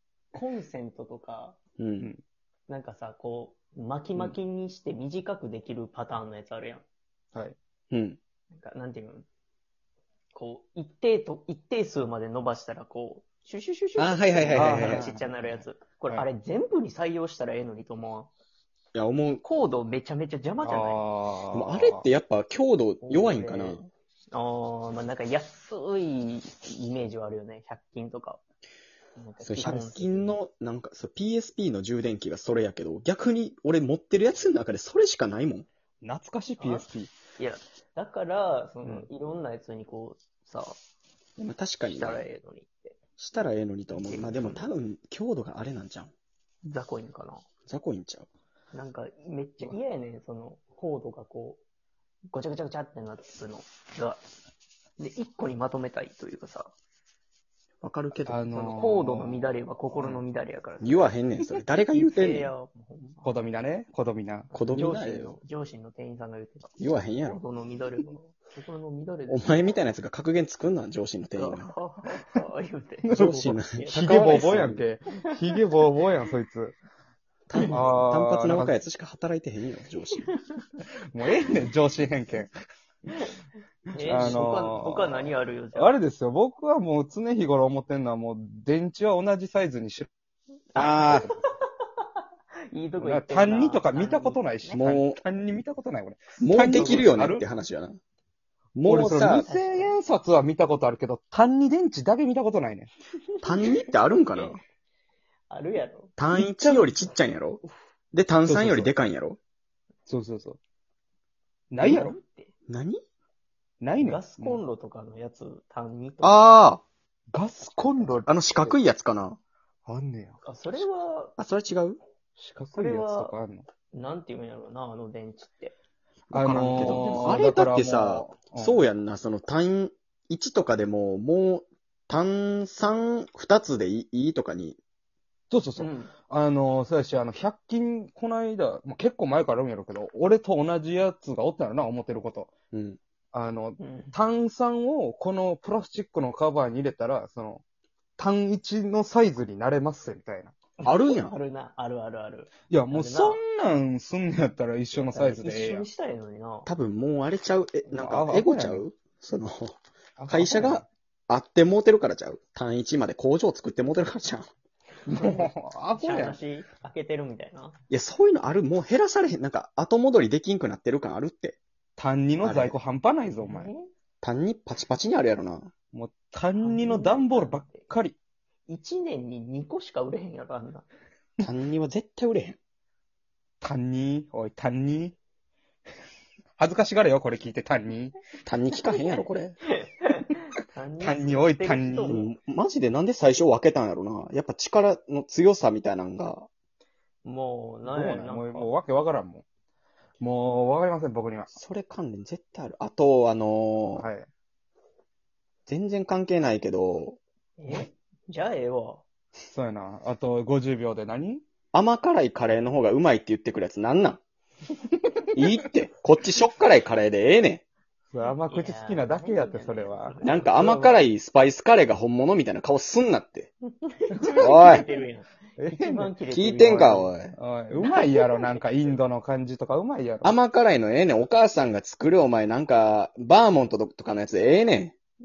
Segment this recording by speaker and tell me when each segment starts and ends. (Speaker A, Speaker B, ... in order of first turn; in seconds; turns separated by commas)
Speaker A: 0.3-1.6, Speaker B: 1.8-2.1, Speaker A: 2.7-6.9, Speaker B: 7.9-8.2, Speaker A: 8.5-9.3, Speaker A: 10.3-18.3, Speaker B: 14.0-15.2, Speaker C: 14.5-15.2, Speaker B: 18.9-19.4, Speaker A: 19.4-21.1, Speaker C: 20.6-22.1, Speaker B: 21.5-23.9, Speaker A: 23.0-28.4, Speaker A: 29.2-30.4, Speaker B: 29.4-35.7, Speaker C: 36.0-37.1, Speaker A: 36.6-40.8, Speaker C: 38.8-39.1, Speaker B: 41.4-42.3, Speaker A: 41.8-43.0, Speaker B: 43.2-46.1, Speaker A: 44.0-44.7, Speaker A: 46.6-47.4, Speaker B: 47.7-48.3, Speaker A: 48.7-51.6, Speaker A: 52.3-54.3, Speaker A: 55.0-56.7, Speaker B: 57.8-58.5, Speaker C: 58.3-60.2, Speaker A: 58.5-61.2, Speaker B: 60.8-62.5, Speaker A: 61.9-63.4, Speaker C: 63.2-64.9, Speaker B: 64.5-65.4, Speaker A: 64.5-69.6, Speaker B: 66.8-67.4, Speaker B: 69.3-71.7, Speaker A: 71.4-73.2, Speaker C: 73.0-76.8, Speaker B: 73.1-74.9, Speaker A: 73.7-74.6, Speaker B: 77.5-80.3, Speaker C: 77.7-78.8, Speaker A: 80.2-80.6, Speaker C: 81.1-82.5, Speaker A: 81.3-81.6, Speaker A: 83.9-86.0, Speaker C: 84.0-90.1, Speaker B: 84.1-84.4, Speaker B: 90.8-91.3, Speaker A: 90.8-91.5, Speaker C: 90.8-91.2, Speaker A: 92.7-94.8, Speaker C: 93.0-97.5, Speaker B: 94.7-95.2, Speaker B: 96.4-98.0, Speaker B: 98.8-99.5, Speaker C: 98.8-102.9, Speaker A: 99.5-100.0, Speaker A: 103.4-104.6, Speaker B: 103.4-104.6, Speaker A: 105.5-106.9, Speaker B: 106.2-109.4, Speaker C: 108.5-109.0, Speaker C: 110.1-110.6, Speaker C: 111.7-112.2, Speaker A: 111.8-112.5, Speaker B: 112.7-113.0, Speaker C: 113.8-114.6, Speaker A: 114.0-116.4, Speaker B: 116.2-116.8, Speaker C: 117.3-118.8, Speaker B: 118.3-119.4, Speaker C: 119.9-120.4, Speaker A: 120.4-121.3, Speaker B: 121.4-122.0, Speaker C: 122.4-123.7, Speaker A: 122.7-123.3, Speaker A: 123.9-125.8, Speaker B: 126.3-134.8, Speaker C: 126.3-128.8, Speaker A: 126.9-127.2, Speaker C: 135.5-142.5, Speaker A: 135.8-136.1, Speaker B: 142.7-143.0, Speaker C: 143.3-147.6, Speaker A: 143.8-144.1, Speaker C: 148.2-150.5, Speaker A: 150.8-153.4, Speaker B: 150.8-151.4, Speaker C: 152.7-155.9, Speaker A: 154.9-156.7, Speaker B: 156.7-164.5, Speaker C: 157.9-158.9, Speaker C: 160.2-160.9, Speaker A: 165.1-167.8, Speaker C: 165.1-166.4, Speaker B: 167.9-171.6, Speaker C: 172.0-173.7, Speaker B: 172.4-172.8, Speaker A: 173.4-173.9, Speaker B: 174.2-175.7, Speaker C: 175.9-178.2, Speaker A: 176.6-177.9, Speaker A: 178.7-180.9, Speaker B: 181.4-182.6, Speaker C: 183.6-185.2, Speaker C: 186.6-188.2, Speaker B: 188.4-189.6, Speaker A: 188.8-192.2, Speaker C: 191.0-192.2, Speaker B: 192.0-196.5, Speaker A: 197.2-198.7, Speaker C: 197.9-199.4, Speaker C: 200.2-201.6, Speaker B: 201.5-204.1, Speaker C: 204.0-204.3, Speaker B: 205.7-207.2, Speaker A: 207.6-209.0, Speaker C: 209.5-211.4, Speaker B: 211.7-214.2, Speaker B: 215.3-217.6, Speaker C: 218.1-220.2, Speaker A: 218.5-221.1, Speaker B: 220.2-223.5, Speaker A: 223.8-227.1, Speaker C: 224.2-224.7, Speaker B: 224.4-224.9, Speaker C: 225.6-226.1, Speaker B: 226.3-227.3, Speaker C: 226.8-230.3, Speaker A: 227.7-228.9, Speaker B: 230.2-234.9